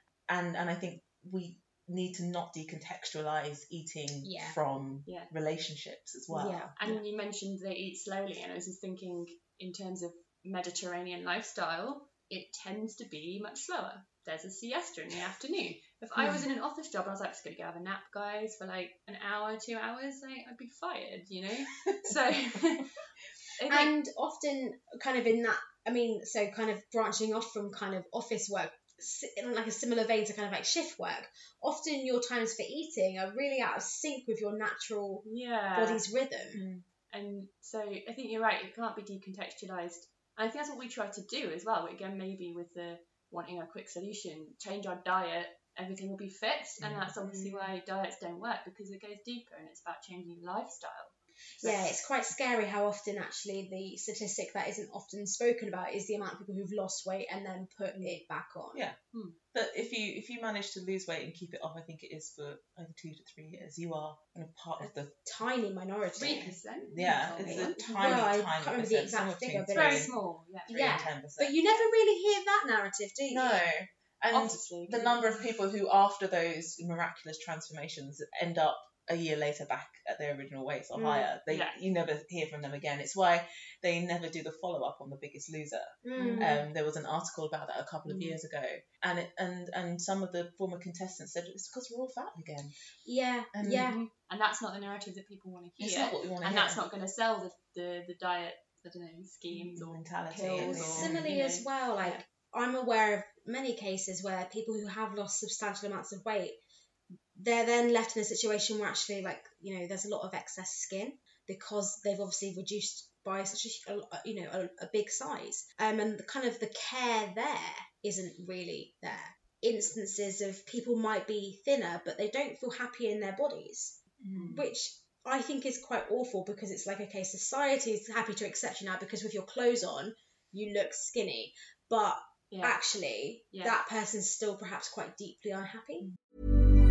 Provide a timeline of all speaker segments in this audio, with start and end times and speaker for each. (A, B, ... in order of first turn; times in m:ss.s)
0:00.3-0:06.7 A
0:04.2-0:04.6 B
0:05.1-0:05.3 C
0:06.3-0:07.0 B
0:06.8-0:22.9 C
0:23.6-0:23.9 C
0:23.7-0:36.6 B
0:35.2-0:36.0 C
0:36.5-0:36.8 A
0:37.1-0:51.9 C
0:46.8-0:47.1 A
0:47.2-0:47.7 B
0:51.6-0:58.8 B
0:57.9-0:58.2 C
0:59.1-0:59.4 C
0:59.5-1:05.2 A
1:05.3-1:10.1 B
1:06.2-1:10.1 A
1:06.2-1:08.3 C
1:09.7-1:11.1 C
1:10.7-1:11.8 A
1:10.7-1:13.6 B
1:13.3-1:32.7 A
1:14.3-1:15.4 C
1:21.0-1:21.3 B
1:21.5-1:21.8 C
1:26.0-1:26.6 B
1:26.2-1:26.6 C
1:28.1-1:28.4 B
1:33.0-1:34.0 B
1:33.6-1:34.0 A
1:33.9-1:42.2 C
1:35.8-1:36.8 A
1:39.5-1:41.3 A
1:40.4-1:46.6 B
1:47.4-2:04.0 B
2:04.3-2:04.6 A
2:04.3-2:04.6 C
2:04.5-2:16.1 B
2:12.5-2:12.8 C